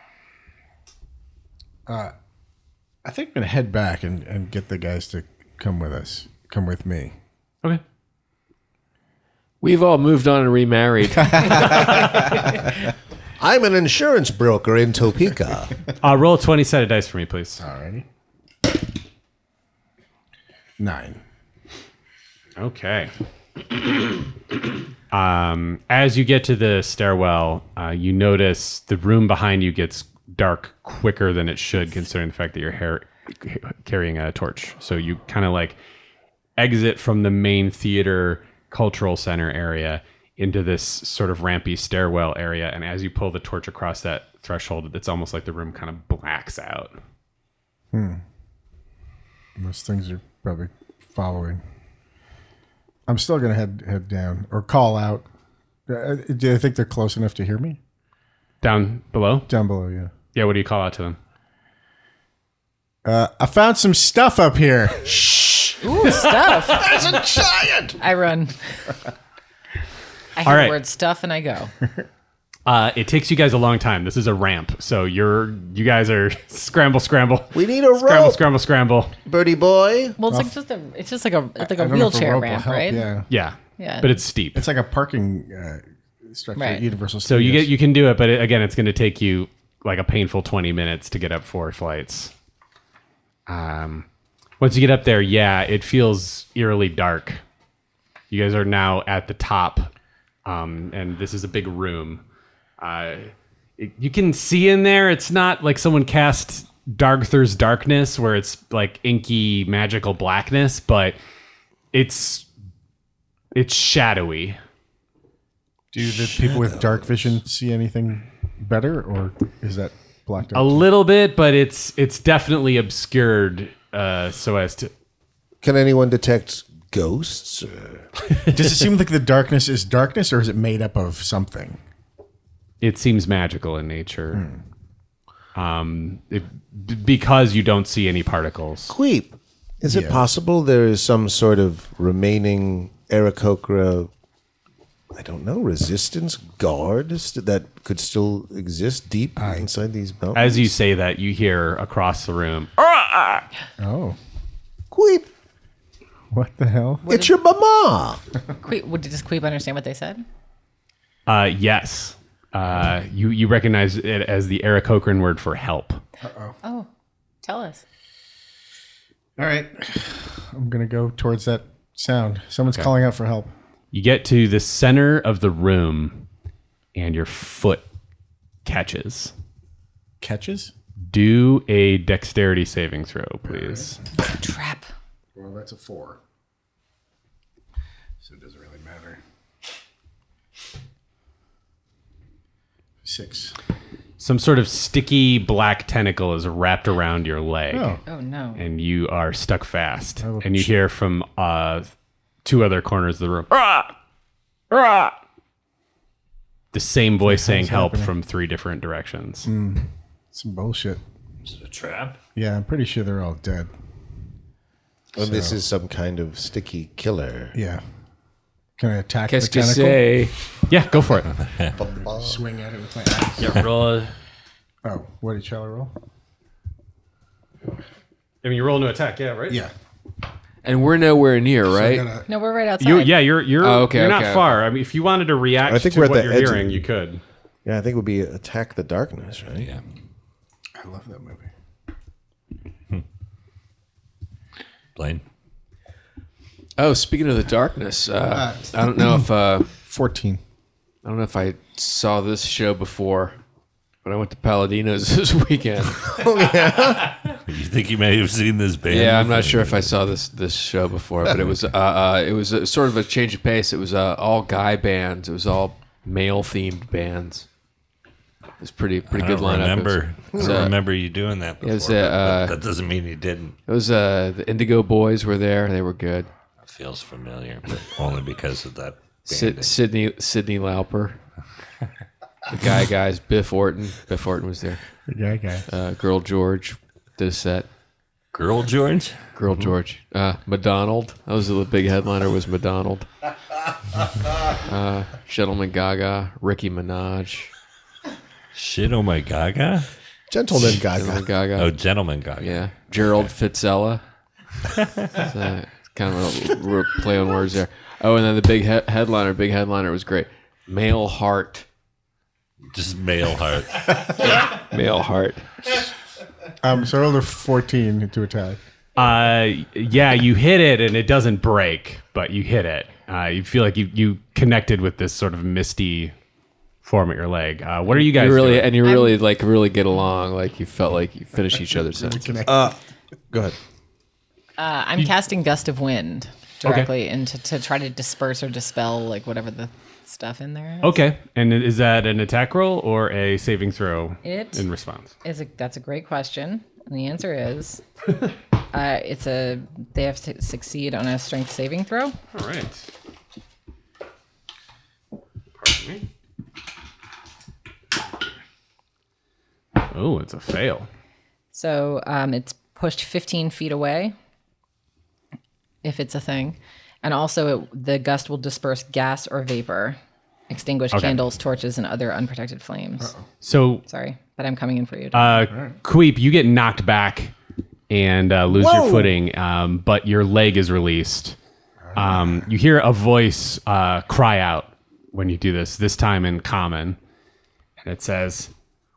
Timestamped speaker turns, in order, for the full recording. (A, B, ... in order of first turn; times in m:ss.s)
0:01.9-0:02.1 A
0:03.0-0:07.2 A
0:09.6-0:12.1 B
0:13.4-0:15.8 C
0:16.0-0:17.6 D
0:17.6-0:18.1 A
0:20.8-0:21.2 A
0:22.6-0:23.1 D
0:25.1-0:35.8 D
0:36.6-0:46.9 D
0:47.9-0:48.2 A
0:49.6-0:51.6 A
0:53.1-0:55.2 A
0:55.9-0:57.8 A
0:58.6-0:59.5 D
0:59.5-1:00.1 A
1:00.3-1:01.2 D
1:03.0-1:05.3 A
1:05.8-1:06.9 E
1:06.7-1:08.0 C
1:08.0-1:08.6 E
1:10.4-1:11.7 E
1:10.4-1:10.8 D
1:12.7-1:19.1 D
1:17.5-1:18.4 C
1:19.3-1:20.2 C
1:20.2-1:23.1 E
1:21.6-1:23.3 A
1:23.3-1:24.6 D
1:23.8-1:24.1 E
1:24.6-1:27.8 A
1:26.6-1:26.8 E
1:27.2-1:32.3 D
1:33.5-1:34.1 D
1:34.6-1:37.4 D
1:38.3-1:39.9 D
1:40.5-1:42.2 D
1:42.8-1:51.2 D
1:51.9-1:52.5 D
1:53.5-1:54.6 D
1:55.9-2:00.9 A
1:56.0-1:57.0 C
2:00.5-2:04.9 D
2:05.6-2:08.1 C
2:08.5-2:11.8 A
2:12.8-2:14.4 D
2:14.3-2:14.6 A
2:15.6-2:18.9 D
2:18.9-2:24.1 C
2:19.8-2:20.3 A
2:25.1-2:30.7 C
2:29.4-2:29.7 A
2:30.3-2:33.4 D
2:33.8-2:34.2 A
2:34.9-2:35.3 C
2:36.3-2:37.1 A
2:37.1-2:38.2 C
2:38.6-2:40.2 E
2:41.3-2:46.0 D
2:46.2-2:46.6 A
2:46.6-2:46.9 E
2:47.4-2:47.8 E
2:49.4-2:53.5 A
2:53.9-2:56.2 D
2:57.0-2:57.8 D
2:58.6-2:59.3 D
3:00.2-3:00.7 A
3:01.1-3:04.0 D
3:03.4-3:04.0 A
3:04.2-3:04.9 E
3:05.4-3:06.2 A
3:08.2-3:09.2 A
3:13.0-3:13.6 A
3:14.2-3:18.0 D
3:17.7-3:18.0 A
3:18.1-3:18.6 E
3:18.6-3:21.9 D
3:20.2-3:20.7 A
3:22.4-3:23.9 D
3:24.7-3:25.1 D
3:26.7-3:29.5 D
3:27.2-3:28.1 A
3:29.5-3:31.0 A
3:31.5-3:32.2 F
3:32.4-3:33.7 A
3:35.2-3:37.6 C
3:35.2-3:35.6 A
3:37.5-3:37.8 A
3:38.8-3:40.3 A
3:39.3-3:40.3 B
3:40.7-3:41.3 D
3:41.7-3:42.4 C
3:41.7-3:43.7 A
3:43.4-3:44.1 D
3:44.8-3:45.9 A
3:48.4-3:49.6 D
3:50.6-3:52.1 B
3:51.7-3:52.3 A
3:52.3-3:53.1 E
3:52.8-3:57.2 D
3:53.6-3:54.5 B
3:55.7-3:56.8 C
3:57.6-3:59.7 C
4:00.8-4:01.5 A
4:05.0-4:05.2 F
4:06.8-4:09.7 B
4:08.4-4:08.8 A
4:09.8-4:10.4 A
4:11.0-4:13.4 B
4:14.0-4:16.1 B
4:16.1-4:17.1 C
4:17.4-4:20.0 F
4:18.9-4:27.5 B
4:28.6-4:30.8 B
4:29.1-4:33.6 F
4:30.4-4:30.6 C
4:31.6-4:32.6 B
4:33.7-4:36.3 B
4:36.6-4:39.7 F
4:39.3-4:41.2 B
4:42.5-4:44.8 B
4:45.1-4:45.6 A
4:45.7-4:47.7 B
4:48.3-4:49.7 F
4:49.4-4:53.1 B
4:54.7-4:57.5 B
4:58.6-4:59.9 F
5:00.3-5:01.2 C
5:00.8-5:01.7 B
5:01.6-5:03.3 F
5:02.4-5:04.0 B
5:05.2-5:11.6 B
5:12.7-5:14.2 F
5:14.4-5:15.4 B
5:16.6-5:18.6 A
5:19.0-5:26.1 D
5:26.8-5:28.7 D
5:27.9-5:32.4 B
5:28.8-5:29.2 E
5:31.9-5:32.8 A
5:32.5-5:32.8 C
5:34.6-5:41.0 E
5:36.6-5:36.9 D
5:40.8-5:45.1 D
5:44.2-5:44.6 E
5:45.2-5:47.8 E
5:48.7-5:52.2 E
5:52.3-5:52.9 D
5:55.6-5:56.0 D
5:59.8-6:00.9 D
6:01.5-6:04.1 E
6:05.8-6:10.0 E
6:10.5-6:13.1 E
6:10.9-6:11.2 D
6:13.4-6:13.8 D
6:13.9-6:15.5 E
6:15.1-6:17.3 D
6:15.5-6:15.8 A
6:17.9-6:21.4 D
6:18.5-6:19.1 A
6:21.8-6:22.5 A
6:22.0-6:27.0 D
6:27.8-6:28.5 D